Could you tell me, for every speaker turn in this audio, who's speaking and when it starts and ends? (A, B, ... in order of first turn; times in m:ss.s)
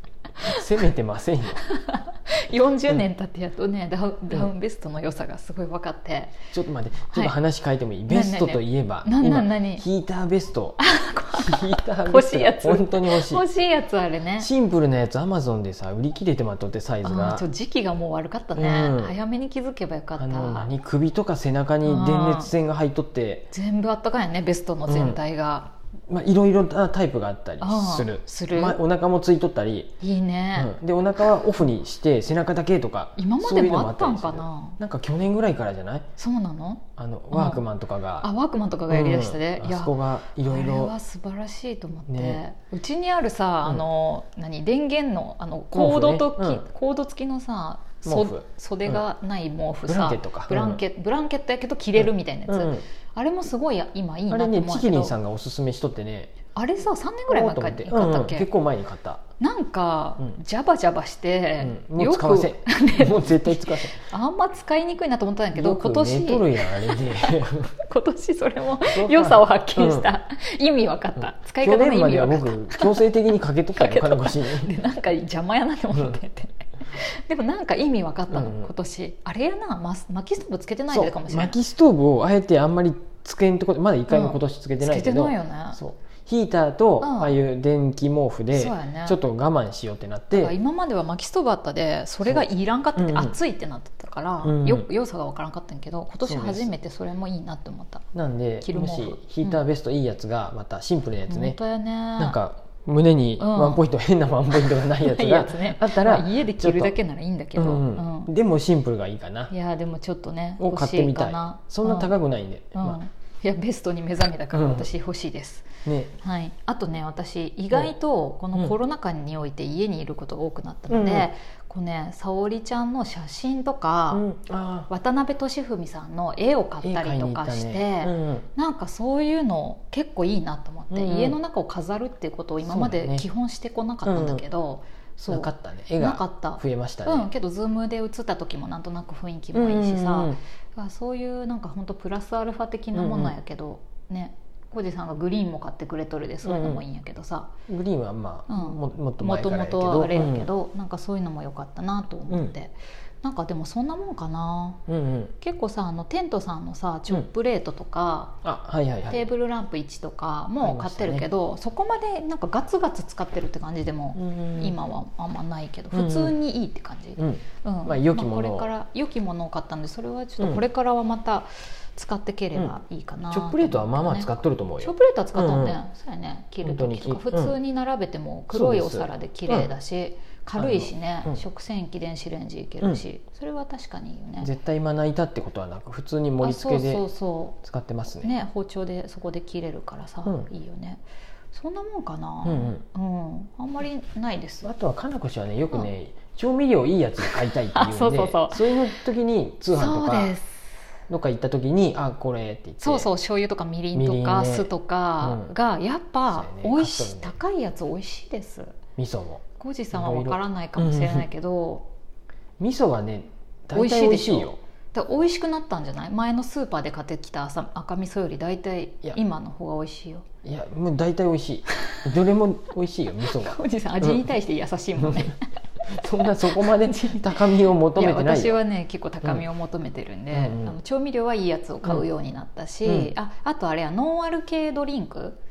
0:00.4-0:01.6 A
0:01.6-0:06.3 B
0:06.5-0:10.8 A
0:08.1-0:09.8 B
0:10.8-0:14.5 B
0:11.3-0:13.4 A
0:14.4-0:17.4 A
0:17.0-0:20.7 B
0:18.5-0:19.2 A
0:20.2-0:23.5 A
0:21.8-0:22.5 B
0:23.5-0:25.7 B
0:24.9-0:25.2 A
0:26.1-0:29.9 A
0:27.6-0:28.8 B
0:30.0-0:30.7 B
0:30.5-0:36.1 A
0:33.2-0:34.8 B
0:36.2-0:37.6 B
0:37.0-0:38.3 A
0:38.2-0:55.2 B
0:38.9-0:40.9 A
0:42.1-0:42.4 A
0:45.7-0:46.6 A
0:48.0-0:49.0 A
0:49.9-0:50.8 A
0:52.0-0:52.8 A
0:54.3-0:56.4 A
0:56.5-0:58.5 B
0:57.3-0:59.2 A
0:59.4-1:13.0 B
1:01.6-1:04.0 A
1:05.5-1:07.7 A
1:08.8-1:10.1 A
1:11.2-1:14.7 A
1:13.7-1:21.6 B
1:18.3-1:18.7 A
1:20.9-1:30.5 A
1:24.1-1:25.8 B
1:27.0-1:27.4 B
1:28.5-1:29.2 B
1:30.3-1:38.0 B
1:32.2-1:33.4 A
1:34.4-1:34.8 A
1:36.2-1:36.7 A
1:38.1-1:41.6 A
1:38.6-1:39.6 B
1:41.3-1:42.4 B
1:42.2-1:47.0 A
1:43.4-1:43.8 B
1:45.0-1:48.3 B
1:47.6-1:49.5 A
1:49.5-1:52.1 B
1:50.6-1:53.0 A
1:52.7-1:55.7 B
1:54.5-1:54.9 A
1:55.8-1:56.1 A
1:56.2-2:04.2 B
2:00.9-2:01.3 A
2:04.1-2:04.9 A
2:04.9-2:27.5 B
2:06.8-2:08.5 A
2:10.9-2:11.4 A
2:12.6-2:13.2 A
2:14.0-2:14.4 A
2:15.3-2:17.3 A
2:19.5-2:20.4 A
2:22.9-2:23.4 A
2:26.4-2:26.8 A
2:27.7-2:30.5 A
2:28.5-2:34.8 B
2:34.9-2:35.3 A
2:35.4-2:38.4 B
2:38.4-2:39.3 A
2:39.1-3:04.5 B
2:40.6-2:41.2 A
2:44.1-2:44.7 A
2:45.9-2:46.3 A
2:47.2-2:48.7 A
2:53.3-2:55.8 A
2:56.6-2:57.6 A
2:58.5-2:59.7 A
3:00.6-3:01.4 A
3:04.4-3:07.0 A
3:06.4-3:07.6 B
3:07.6-3:08.3 A
3:08.2-3:14.7 B
3:12.4-3:12.8 A
3:14.6-3:20.3 A
3:17.3-3:18.8 B
3:19.7-3:20.7 B
3:21.1-3:23.1 A
3:22.8-3:28.8 B
3:23.9-3:25.5 A
3:26.3-3:27.4 A
3:29.0-3:31.2 A
3:29.6-3:31.9 B
3:32.6-3:34.6 A
3:33.7-3:40.2 B
3:40.4-3:44.3 A
3:43.3-3:45.4 B
3:45.0-3:45.3 A
3:45.9-3:48.6 A
3:45.9-3:55.4 B
3:50.3-3:50.8 A
3:52.8-3:53.1 A